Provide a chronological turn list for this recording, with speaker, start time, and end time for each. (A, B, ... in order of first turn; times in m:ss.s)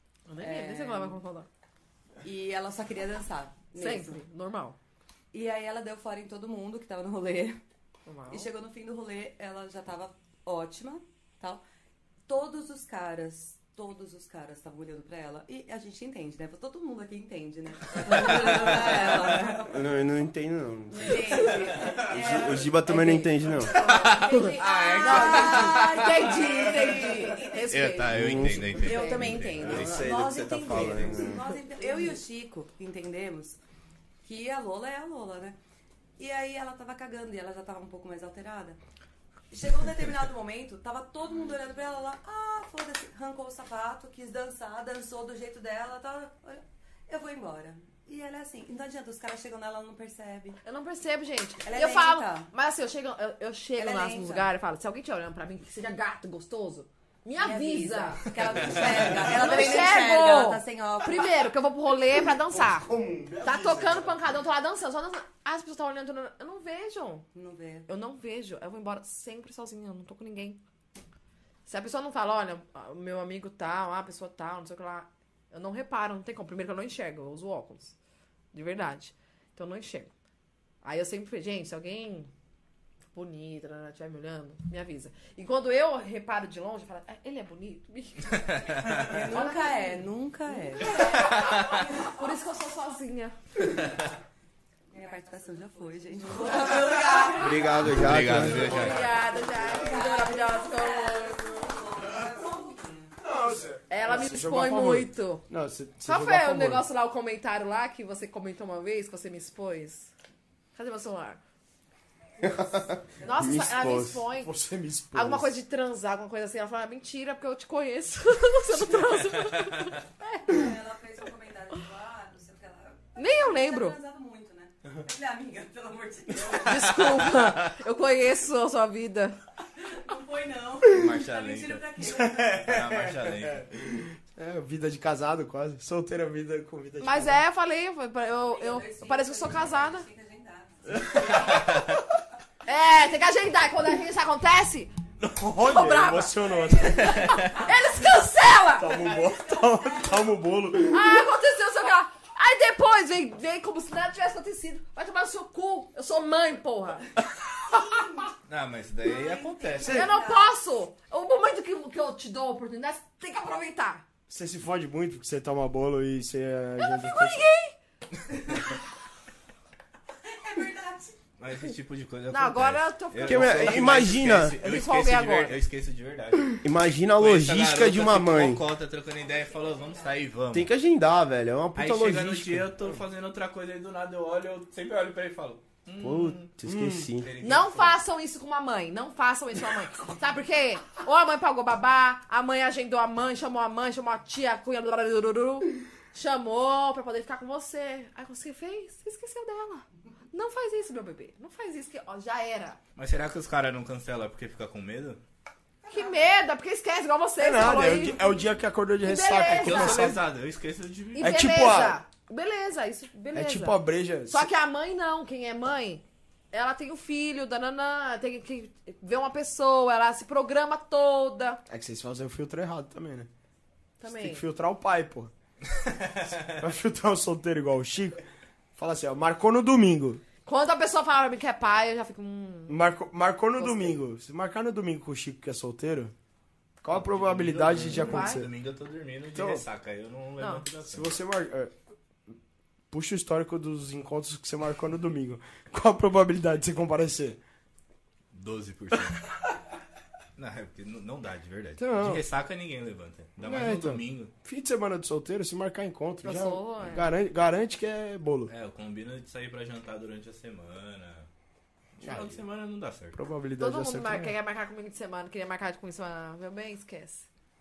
0:00.3-0:01.5 A
0:00.4-0:01.2 B
0:02.2-0:04.2 B
0:03.7-0:04.8 A
0:05.3-0:07.6 B
0:08.1-0:08.5 A
0:08.3-0:11.6 B
0:12.3-0:19.8 B
0:18.4-0:19.2 C
0:19.7-0:23.8 D
0:20.9-0:27.7 B
0:23.7-0:26.2 C
0:24.1-0:29.5 A
0:27.7-0:30.1 C
0:28.1-0:28.8 D
0:28.7-0:33.6 B
0:29.6-0:31.4 D
0:31.9-0:32.1 A
0:34.2-0:35.6 B
0:36.2-0:38.8 B
0:39.5-0:50.6 B
0:50.6-1:02.9 A
0:51.6-0:52.5 B
0:53.8-0:54.5 B
0:57.4-1:01.4 B
1:02.3-1:04.2 E
1:03.4-1:07.3 A
1:07.3-1:07.9 B
1:07.9-1:10.6 A
1:11.7-1:18.0 A
1:18.5-1:20.1 A
1:20.8-1:22.3 A
1:23.1-1:30.0 A
1:28.7-1:29.0 C
1:28.9-1:32.2 B
1:30.7-1:33.8 A
1:31.0-1:31.8 C
1:34.9-1:38.0 B
1:36.5-1:37.7 A
1:37.4-1:38.9 D
1:37.7-1:39.1 C
1:38.6-1:41.8 A
1:38.7-1:43.1 B
1:43.2-1:46.9 E
1:43.9-1:45.5 A
1:46.0-1:50.1 A
1:50.7-1:51.4 A
1:52.4-1:54.2 D
1:53.2-1:53.6 B
1:53.2-1:54.5 A
1:54.4-1:55.5 E
1:55.1-2:00.7 A
2:00.4-2:07.0 B
2:03.2-2:04.0 A
2:06.5-2:09.4 A
2:09.8-2:12.7 B
2:10.9-2:13.7 C
2:12.0-2:17.4 E
2:17.0-2:20.1 A
2:18.4-2:21.7 B
2:21.0-2:21.4 E
2:22.7-2:24.9 A
2:25.2-2:27.4 E
2:25.5-2:29.0 A
2:27.0-2:27.7 B
2:28.8-2:31.2 E
2:29.1-2:30.4 B
2:30.9-2:37.2 A
2:37.9-2:38.3 B
2:38.4-2:40.1 C
2:39.0-2:40.5 B
2:39.8-2:40.1 E
2:39.8-2:44.1 A
2:44.3-2:47.4 E
2:46.8-2:47.7 A
2:50.2-2:51.2 B
2:51.4-3:00.7 C
2:52.3-2:55.6 A
2:53.3-2:54.6 D
2:56.6-2:58.6 D
2:59.2-3:00.2 B
3:00.5-3:02.7 D
3:01.7-3:06.4 C
3:06.0-3:07.3 D
3:06.6-3:07.1 E
3:07.2-3:08.0 C
3:07.4-3:22.8 A
3:23.0-3:25.2 C
3:25.9-3:28.4 A
3:27.4-3:30.2 E
3:29.0-3:30.2 A
3:29.5-3:31.3 C
3:31.2-3:41.6 A
3:31.2-3:32.0 E
3:33.3-3:34.5 E
3:41.7-3:43.3 E
3:44.0-3:44.4 A
3:44.0-3:45.3 E
3:45.8-3:46.4 C
3:46.5-3:48.2 E
3:48.8-3:50.2 E
3:50.4-3:52.8 A
3:52.7-3:56.1 E
3:53.6-3:54.0 A
3:56.8-3:58.5 E
3:56.9-4:01.2 C
3:57.9-3:58.4 A
3:59.3-3:59.6 E
4:00.4-4:00.7 A
4:00.9-4:01.7 E
4:02.9-4:07.4 E
4:08.3-4:09.3 C
4:10.4-4:14.3 C
4:11.8-4:12.2 E
4:13.4-4:18.5 E
4:16.2-4:17.1 A
4:18.5-4:21.3 C
4:22.0-4:23.2 C
4:22.0-4:22.4 E
4:23.1-4:24.4 E
4:23.6-4:27.3 A